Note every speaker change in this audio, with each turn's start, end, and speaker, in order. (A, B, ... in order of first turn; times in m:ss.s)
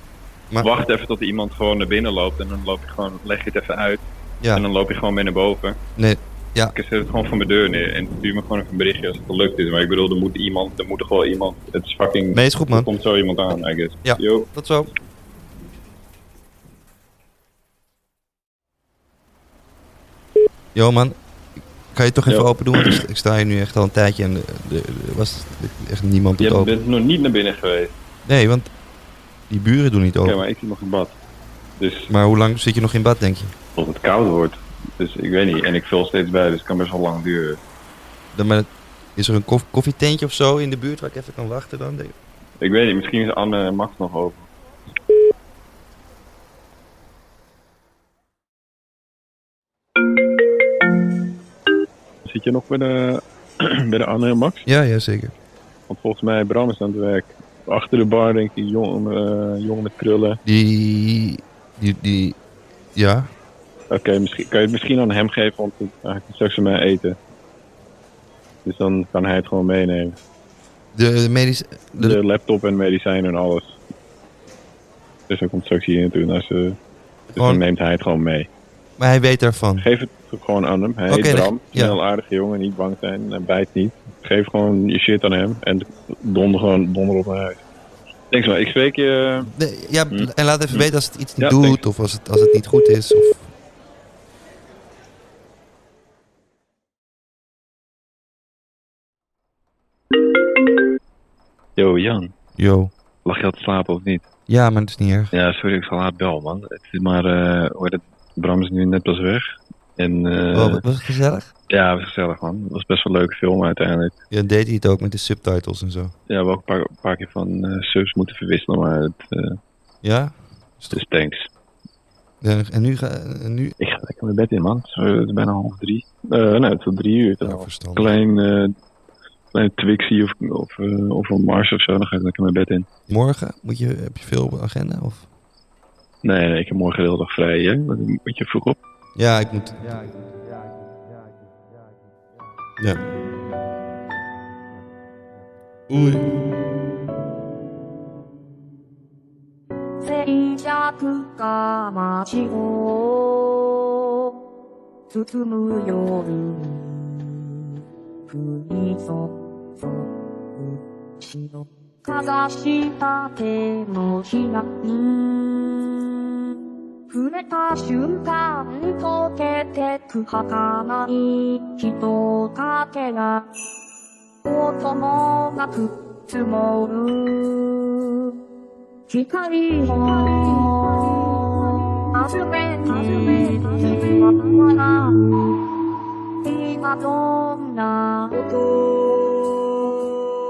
0:00.6-0:05.8 A
0:06.0-0:06.7 B
0:06.7-0:14.5 A
0:12.3-0:12.9 B
0:14.0-0:14.9 B
0:20.7-0:21.2 B
0:21.9-0:26.7 B
0:22.3-0:23.0 A
0:26.4-0:27.9 A
0:28.2-0:28.7 B
0:29.5-0:30.4 B
0:30.2-0:31.2 A
0:31.8-0:32.1 A
0:32.1-0:33.5 B
0:33.7-0:37.6 A
0:38.3-0:42.1 B
0:42.6-0:44.5 A
0:52.2-0:54.7 A
0:54.6-0:55.3 B
0:55.9-1:00.4 A
1:00.4-1:02.4 B
1:02.9-1:03.3 B
1:03.9-1:07.2 A
1:08.6-1:10.2 A
1:10.9-1:12.2 B
1:12.0-1:13.8 A
1:15.3-1:16.8 A
1:17.4-1:17.6 B
1:17.4-1:18.5 A
1:19.0-1:19.8 B
1:19.8-1:27.6 A
1:21.1-1:22.0 B
1:28.3-1:29.5 A
1:29.4-1:33.5 B
1:30.1-1:31.8 A
1:41.8-1:42.3 A
1:42.6-1:42.9 B
1:43.2-1:44.2 A
1:44.5-1:45.3 B
1:45.3-1:49.4 A
1:50.0-1:50.8 A
1:50.5-1:51.5 B
1:51.7-1:54.1 A
1:54.3-1:56.1 B
1:56.3-1:59.6 A
2:00.0-2:01.0 B
2:00.9-2:01.5 A
2:02.4-2:03.7 B
2:03.8-2:08.7 A
2:07.4-2:08.2 B
2:09.5-2:12.9 A
2:13.1-2:15.3 B
2:16.2-2:18.8 A
2:19.2-2:20.0 B
2:25.9-2:26.3 B
2:30.0-2:34.4 C
2:35.1-2:46.6 C
2:47.1-2:53.4 C
2:54.4-2:58.4 C
2:59.1-3:05.2 C
3:06.4-3:09.5 C